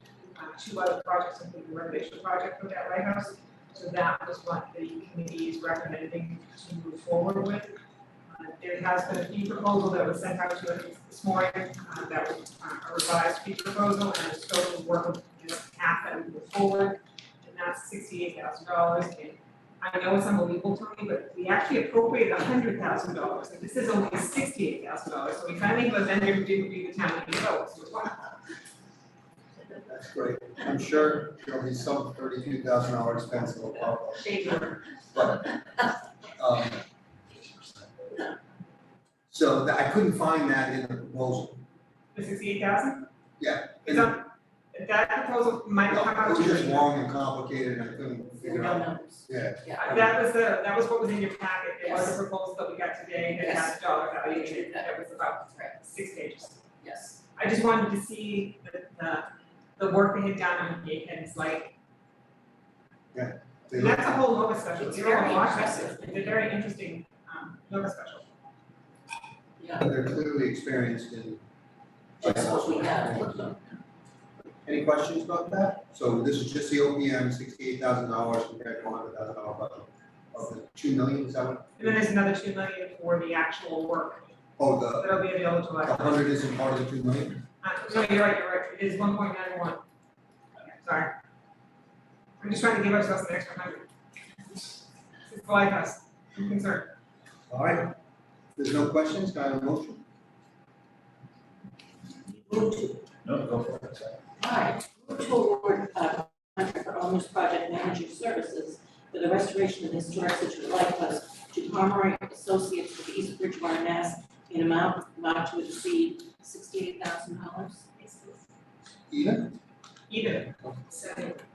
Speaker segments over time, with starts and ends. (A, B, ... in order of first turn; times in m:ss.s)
0:00.4-0:07.8 A
0:08.3-0:28.3 A
0:29.8-0:37.9 B
0:39.3-0:41.7 B
0:42.1-0:43.1 A
0:43.4-0:44.2 B
0:43.8-0:46.9 A
0:45.9-0:50.2 B
0:48.4-0:49.8 C
0:49.8-0:56.7 A
0:51.8-0:52.2 C
0:53.4-0:53.8 C
0:54.3-0:54.9 C
0:56.8-0:57.2 C
0:57.4-1:01.8 A
1:03.1-1:04.2 B
1:03.7-1:08.3 A
1:04.8-1:06.4 C
1:09.8-1:11.4 B
1:12.2-1:13.4 B
1:12.2-1:13.7 C
1:14.6-1:22.0 B
1:21.8-1:24.3 A
1:24.6-1:25.1 B
1:25.0-1:26.2 A
1:25.8-1:27.4 B
1:27.6-1:29.8 A
1:30.7-1:31.2 A
1:32.4-1:33.9 A
1:35.3-1:36.9 A
1:37.5-1:38.0 B
1:38.6-1:40.0 B
1:42.5-1:43.1 C
1:44.4-1:57.9 C
1:58.0-1:58.4 A
1:59.1-1:59.6 B
2:00.1-2:01.1 A